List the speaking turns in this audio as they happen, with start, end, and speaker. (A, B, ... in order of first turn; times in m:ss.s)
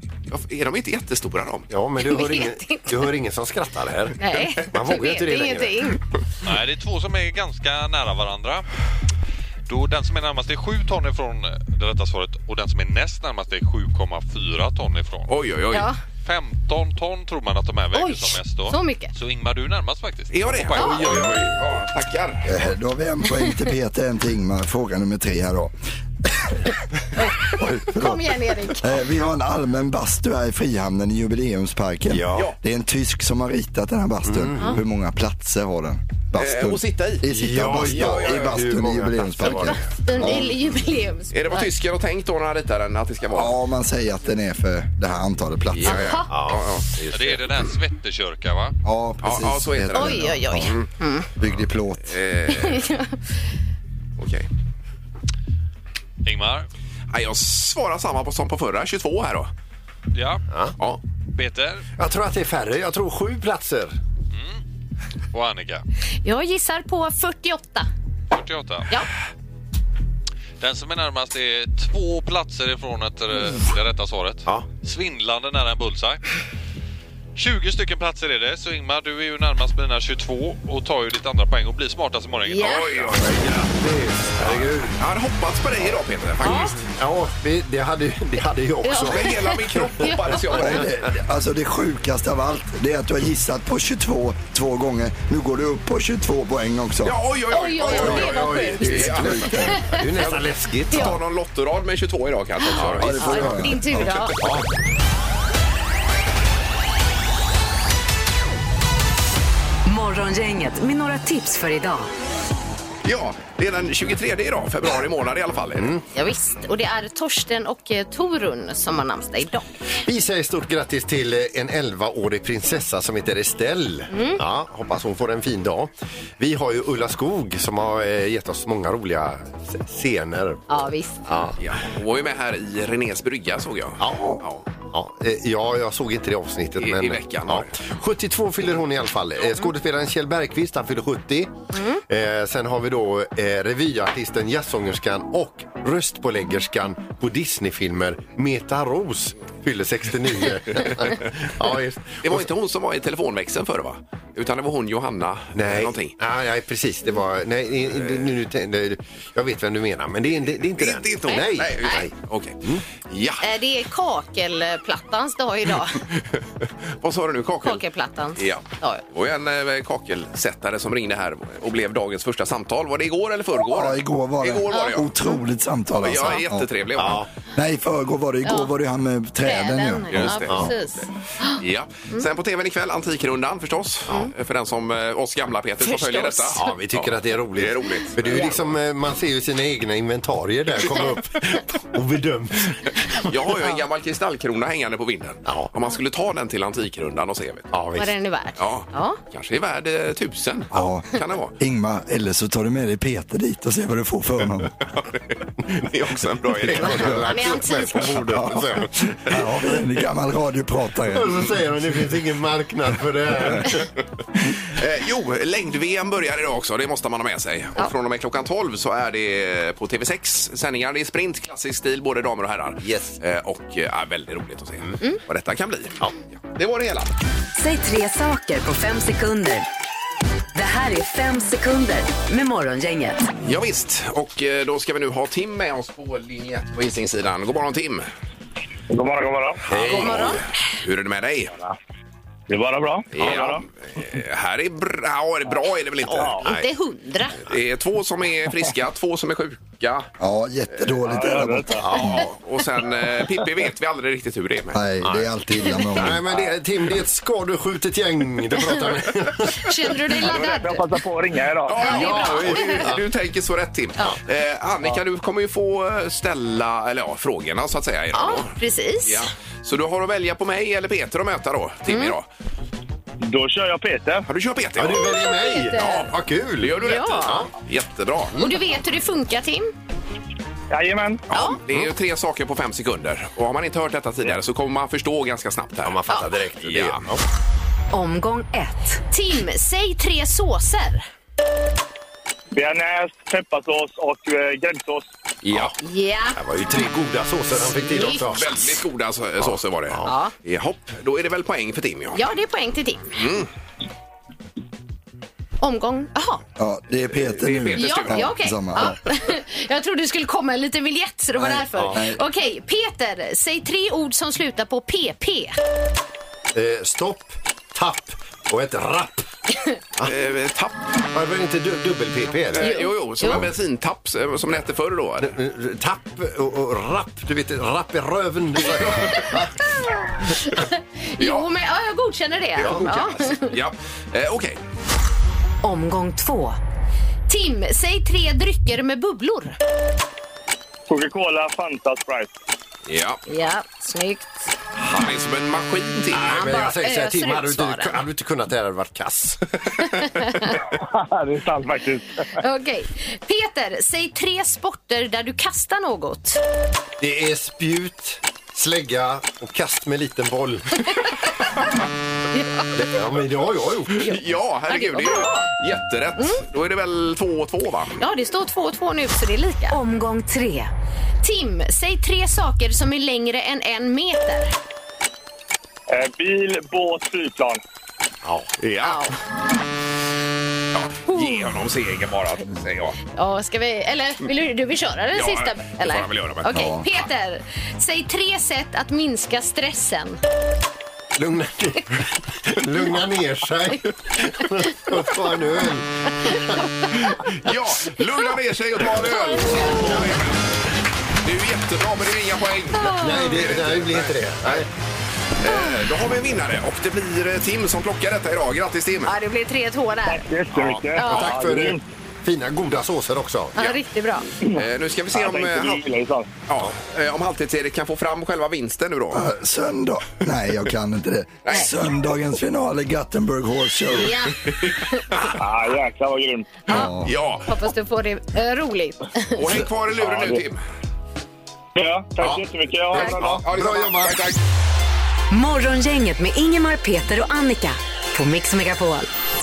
0:00.3-0:01.7 A
0:01.7-0:05.8 B
0:02.0-0:02.9 C
0:04.2-0:06.0 C
0:06.4-0:08.6 D
0:09.7-0:15.3 D
0:15.3-0:15.9 A
0:16.2-0:21.0 D
0:17.9-0:19.1 C
0:20.3-0:22.5 A
0:20.7-0:21.0 C
0:21.0-0:21.4 B
0:22.4-0:25.7 E
0:27.2-0:28.9 C
0:27.4-0:40.6 E
0:32.1-0:32.5 B
0:34.2-0:34.8 B
0:36.4-0:38.5 A
0:37.3-0:40.4 B
0:39.4-0:41.7 C
0:41.3-0:43.6 A
0:43.3-0:46.2 E
0:45.7-0:46.8 A
0:45.9-0:46.3 C
0:46.3-0:47.7 B
0:47.1-0:48.8 D
0:48.8-0:50.8 E
0:49.2-0:50.8 A
0:49.9-0:51.3 C
0:51.4-0:52.2 E
0:52.1-0:52.9 A
0:52.5-0:53.2 C
0:54.2-0:54.5 A
0:56.2-0:56.7 D
0:57.1-0:59.5 A
1:00.1-1:00.4 D
1:01.3-1:01.8 D
1:02.0-1:03.9 B
1:04.3-1:04.6 D
1:05.3-1:05.8 D
1:06.2-1:07.9 C
1:08.3-1:09.0 D
1:10.6-1:16.2 D
1:17.4-1:23.3 D
1:22.5-1:22.9 C
1:22.6-1:23.7 A
1:23.7-1:25.0 B
1:25.0-1:26.8 A
1:26.4-1:26.8 C
1:26.4-1:29.9 B
1:28.8-1:30.4 C
1:29.0-1:30.9 A
1:30.5-1:37.2 E
1:37.0-1:39.4 A
1:37.5-1:40.3 C
1:37.9-1:39.8 E
1:38.0-1:39.3 B
1:39.9-1:41.2 B
1:40.9-1:41.2 C
1:40.9-1:43.6 A
1:42.6-1:44.4 C
1:42.8-1:43.4 B
1:42.8-1:44.5 E
1:44.4-1:44.7 B
1:49.8-1:52.1 F
1:53.0-1:55.9 A
1:55.8-1:56.0 B
1:56.1-1:59.6 C
2:00.0-2:10.6 B
2:04.1-2:04.4 C
2:10.7-2:11.2 C
2:11.3-2:11.6 B
2:11.6-2:14.6 A
2:14.0-2:21.5 B
2:16.8-2:17.7 A
2:21.7-2:22.0 C
2:22.0-2:32.5 B
2:32.2-2:36.1 A
2:35.5-2:42.1 B
2:40.8-2:43.4 A
2:41.3-2:42.0 C
2:43.4-2:46.0 C
2:46.4-2:47.8 A
2:47.6-2:49.0 C
2:48.4-2:55.1 A
2:53.6-2:56.7 E
2:54.7-2:55.3 C
2:56.0-2:57.2 A
2:57.0-2:57.3 B
2:57.6-3:00.7 E
2:58.4-2:58.7 C
2:59.4-3:01.6 C
3:00.1-3:00.7 B
3:01.6-3:08.6 A
3:05.8-3:06.7 C
3:06.5-3:13.3 B
3:08.3-3:08.5 C
3:13.2-3:17.7 A
3:17.7-3:18.1 B
3:17.9-3:19.2 C
3:18.6-3:21.5 A
3:20.7-3:24.7 E
3:25.8-3:27.4 A
3:26.6-3:29.4 B
3:26.8-3:28.1 C
3:28.3-3:31.5 E
3:31.1-3:33.9 B
3:34.7-3:47.1 A
3:42.8-3:43.2 B
3:47.5-3:49.6 F
3:50.5-3:53.2 F
3:53.4-3:58.1 A
3:58.9-3:59.6 G
3:59.6-4:00.4 B
3:59.7-4:01.5 A
3:59.8-4:00.5 C
4:02.5-4:03.6 G
4:03.1-4:06.4 A
4:06.1-4:06.4 G
4:06.4-4:07.4 C
4:07.5-4:10.1 A
4:10.2-4:12.0 E
4:11.0-4:11.9 G
4:11.8-4:12.2 B
4:11.9-4:14.8 A
4:14.7-4:16.3 E
4:15.0-4:20.0 B
4:19.6-4:20.8 C
4:20.2-4:21.9 G
4:21.6-4:28.5 A
4:21.8-4:22.8 C
4:21.9-4:23.0 B
4:28.1-4:29.3 C
4:29.0-4:32.3 A
4:31.9-4:32.1 C
4:33.2-4:34.3 G
4:34.3-4:35.2 A
4:34.8-4:37.5 B
4:35.1-4:36.1 C
4:36.6-4:38.5 A
4:36.8-4:37.4 C
4:38.4-4:39.7 C
4:40.7-4:41.2 G
4:41.3-4:46.0 A
4:41.3-4:41.6 C
4:45.8-4:47.2 B
4:46.6-4:47.0 A
4:47.9-4:49.0 F
4:49.1-4:51.0 C
4:52.5-4:55.1 G
4:55.4-4:55.7 A
4:55.8-4:56.4 C
4:56.4-4:58.8 B
4:58.0-4:58.2 C
4:58.0-5:02.2 A
4:59.4-5:00.1 B
5:00.0-5:00.3 C
5:02.1-5:03.1 C
5:03.1-5:03.5 A
5:05.6-5:06.4 C
5:06.6-5:09.0 E
5:07.2-5:08.3 A
5:07.8-5:15.6 C
5:11.5-5:12.2 E
5:11.8-5:12.0 B
5:16.5-5:19.3 B
5:20.0-5:20.9 A
5:21.1-5:22.7 B
5:22.5-5:25.3 A
5:22.6-5:23.4 C
5:25.2-5:29.5 B
5:30.4-5:33.5 C
5:31.2-5:31.5 A
5:32.6-5:32.8 B
5:32.6-5:34.6 A
5:35.6-5:36.6 F
5:37.3-5:39.6 C
5:40.9-5:42.3 G
5:42.9-5:43.2 A
5:43.3-5:44.5 C
5:44.7-5:46.4 A
5:46.1-5:49.9 B
5:46.2-5:48.0 C
5:49.9-5:50.5 C
5:50.7-5:52.3 G
5:52.4-5:56.4 C
5:57.0-6:01.1 B
6:02.3-6:02.7 C
6:02.7-6:04.0 B
6:04.0-6:05.5 C
6:04.0-6:08.0 A
6:08.0-6:09.8 C
6:09.7-6:10.7 F
6:11.2-6:14.5 C
6:15.9-6:17.6 G
6:18.2-6:18.5 B
6:18.6-6:19.1 A
6:18.8-6:19.2 C
6:20.7-6:23.0 A
6:21.1-6:21.4 C
6:23.1-6:30.2 C
6:25.1-6:26.5 A
6:26.5-6:26.8 E
6:31.2-6:37.5 B
6:37.3-6:40.5 A
6:39.4-6:39.8 C
6:41.2-6:44.6 A
6:42.8-6:43.4 C
6:42.8-6:44.7 B
6:45.4-6:49.1 A
6:49.0-6:50.2 C
6:50.1-6:51.8 G
6:50.6-6:53.5 B
6:51.0-6:51.3 C
6:53.6-6:54.2 C
6:54.4-6:56.3 G
6:54.5-6:55.8 A
6:56.5-6:59.3 A
6:59.1-7:04.2 E
7:01.4-7:01.7 A
7:03.9-7:05.1 C
7:04.5-7:04.8 A
7:05.4-7:06.6 G
7:06.7-7:07.1 E
7:07.0-7:07.5 A
7:07.5-7:09.5 C
7:09.3-7:10.6 A
7:10.1-7:10.3 B
7:11.7-7:13.4 G
7:12.2-7:14.2 B
7:12.9-7:14.4 A
7:15.3-7:19.1 F